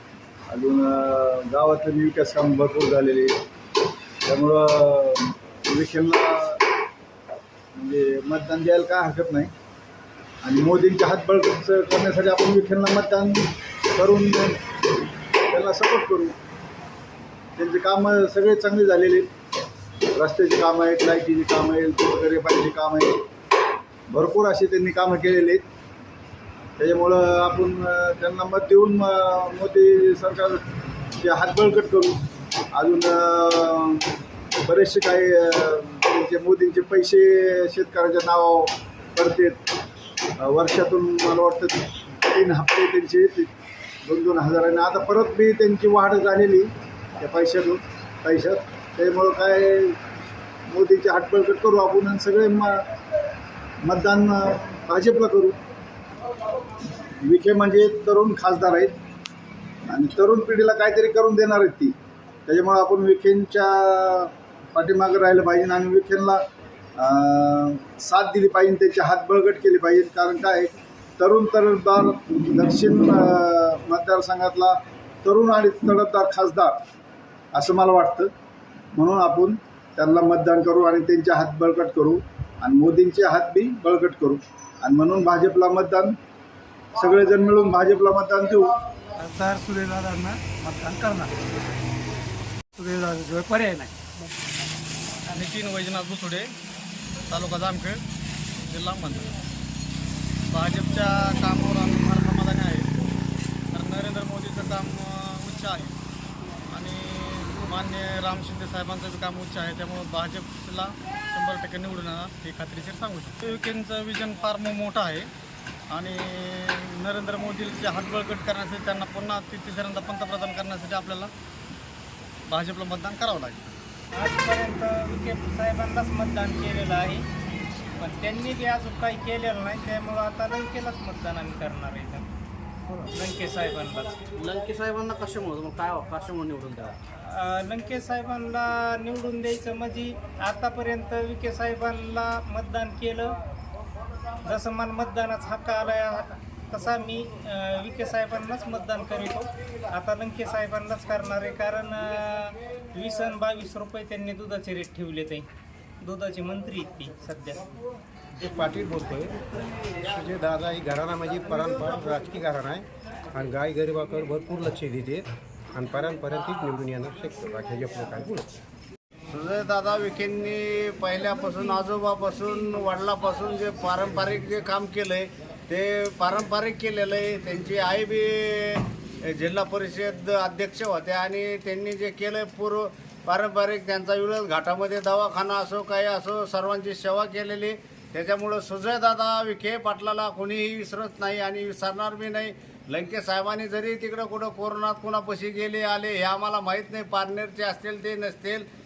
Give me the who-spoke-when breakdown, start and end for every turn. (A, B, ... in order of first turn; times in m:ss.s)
0:00.5-0:03.4 A
0:04.2-0:06.6 A
0:07.8-0:09.5 A
0:10.4-0:14.6 A
0:15.5-0:16.4 A
0:17.6-0:19.3 A
0:20.1-0:23.2 A
0:24.1-0:25.6 A
0:26.8-0:30.6 A
0:31.2-0:32.2 A
0:32.7-0:34.1 A
0:34.6-0:39.6 A
0:40.4-0:43.5 A
0:44.0-0:50.0 A
0:50.7-0:52.8 A
0:53.8-0:55.6 A
0:57.2-0:59.0 A
0:59.8-1:02.0 A
1:02.5-1:06.4 A
1:07.0-1:16.8 A
1:17.5-1:18.3 A
1:18.9-1:26.2 A
1:27.0-1:28.7 A
1:29.2-1:31.3 B
1:32.8-1:33.9 B
1:35.3-1:36.5 C
1:37.3-1:38.0 C
1:38.6-1:39.3 C
1:40.5-1:42.9 C
1:43.7-1:46.0 C
1:46.7-1:55.3 C
1:55.9-2:01.3 C
2:02.5-2:03.8 C
2:04.1-2:07.3 D
2:08.0-2:12.3 D
2:13.0-2:14.2 D
2:14.4-2:17.0 E
2:17.2-2:23.4 D
2:24.4-2:35.5 D
2:36.0-2:37.7 D
2:38.4-2:39.4 F
2:40.0-2:48.5 F
2:49.3-3:18.7 G